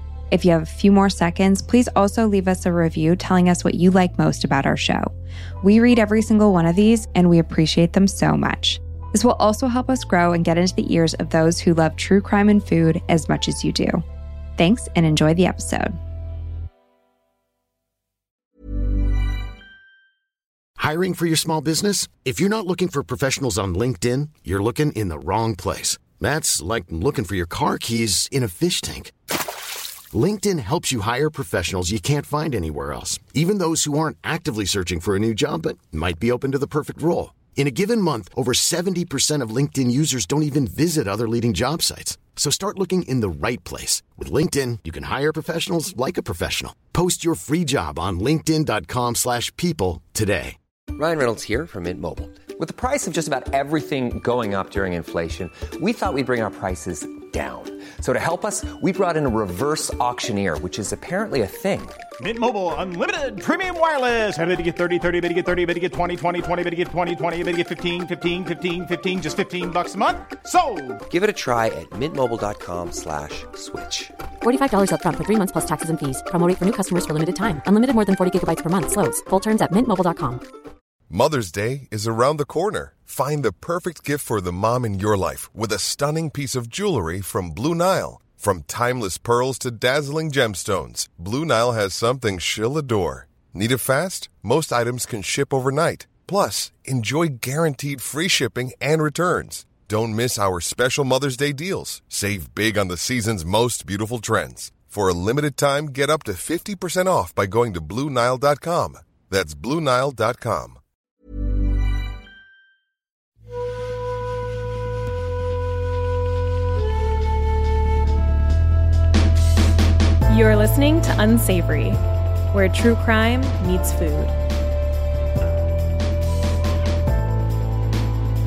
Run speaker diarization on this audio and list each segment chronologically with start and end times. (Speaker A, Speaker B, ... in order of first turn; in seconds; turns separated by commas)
Speaker A: 0.3-14.0, Speaker A: 14.6-16.0, Speaker B: 20.8-29.1, Speaker B: 30.1-50.6, Speaker C: 50.9-62.0, Speaker D: 62.2-71.0, Speaker C: 71.1-74.1, Speaker E: 74.4-80.4, Speaker F: 81.1-110.8, Speaker G: 120.3-122.0, Speaker G: 122.5-124.3